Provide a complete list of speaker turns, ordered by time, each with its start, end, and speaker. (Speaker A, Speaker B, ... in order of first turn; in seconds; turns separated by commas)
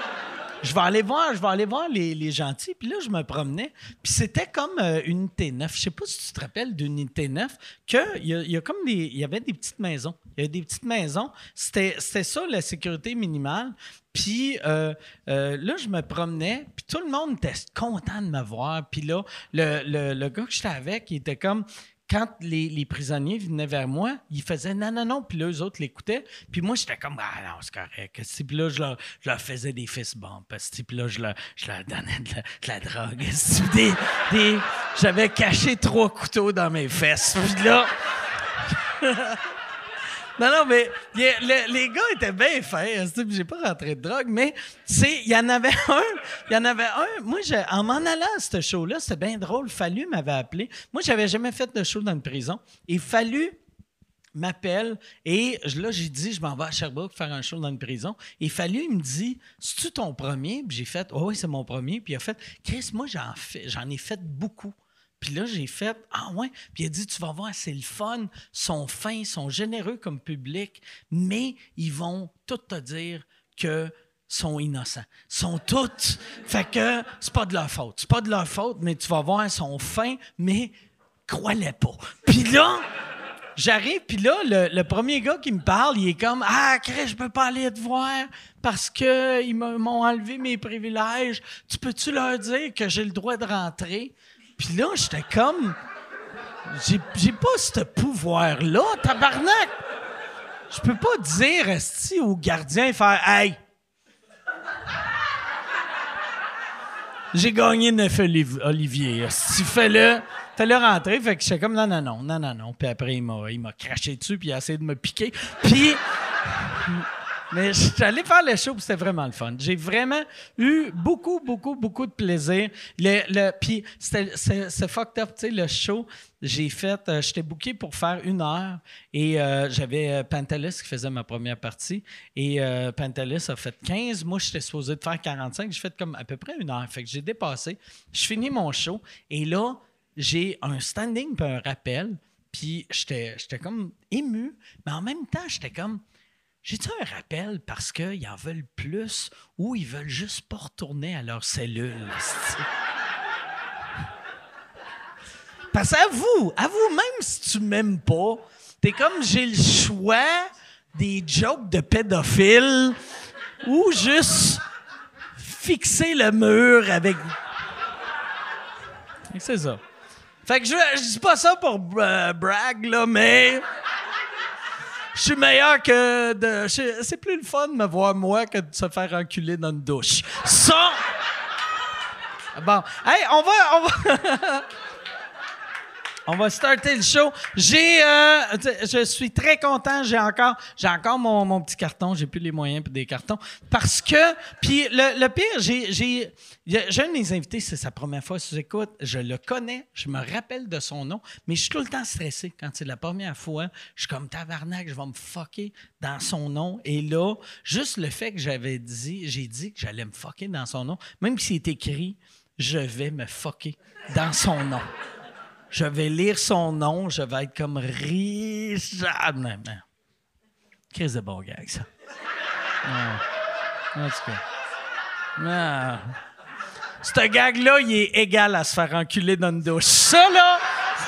Speaker A: 0.6-37.9, Speaker A: 38.7-39.4, Speaker A: 40.4-53.6, Speaker A: 54.4-80.7, Speaker A: 81.3-82.8, Speaker A: 83.5-95.8, Speaker A: 96.7-99.7, Speaker A: 100.7-103.6, Speaker A: 107.3-116.0, Speaker A: 116.6-146.0, Speaker A: 146.6-152.6, Speaker A: 155.7-163.0, Speaker A: 163.6-164.6, Speaker A: 165.4-167.3, Speaker A: 169.3-169.8, Speaker A: 170.4-173.6, Speaker A: 175.1-181.0, Speaker A: 182.5-184.6, Speaker A: 186.3-214.9, Speaker A: 215.7-219.8, Speaker A: 220.9-221.9, Speaker A: 222.8-223.2, Speaker A: 223.9-224.4, Speaker A: 225.4-226.2, Speaker A: 227.0-230.6